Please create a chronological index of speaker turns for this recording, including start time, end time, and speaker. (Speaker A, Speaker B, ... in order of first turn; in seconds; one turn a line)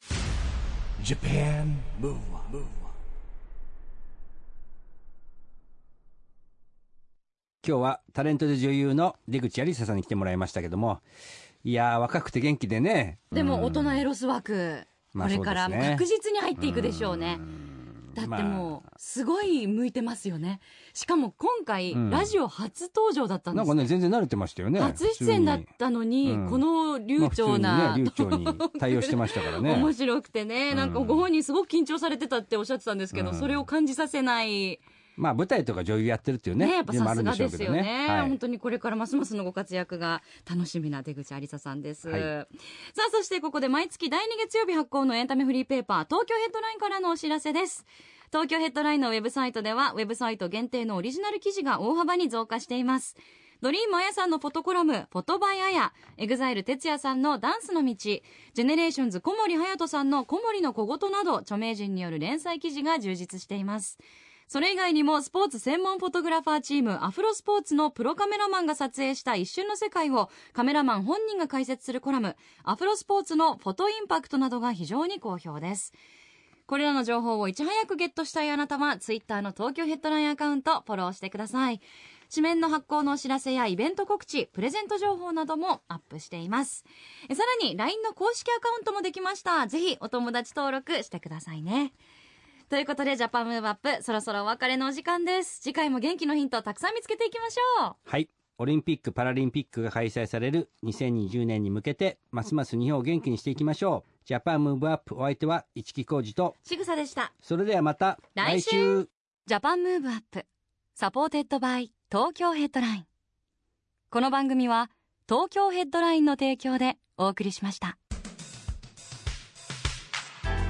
Speaker A: 1.0-3.0
Speaker B: 7.6-11.0
Speaker B: 11.6-14.1
Speaker C: 13.3-17.5
Speaker B: 15.1-16.1
Speaker B: 16.6-18.8
Speaker C: 18.1-23.8
Speaker B: 21.9-22.4
Speaker B: 23.5-25.7
Speaker C: 24.8-34.8
Speaker B: 26.2-26.6
Speaker B: 27.2-29.9
Speaker B: 30.7-31.3
Speaker B: 33.1-33.7
Speaker B: 35.2-38.4
Speaker C: 36.6-76.0
Speaker C: 76.7-92.0
Speaker C: 92.7-98.0
Speaker B: 98.1-106.6
Speaker C: 106.7-107.3
Speaker B: 107.4-109.1
Speaker C: 108.3-113.1
Speaker C: 114.1-118.0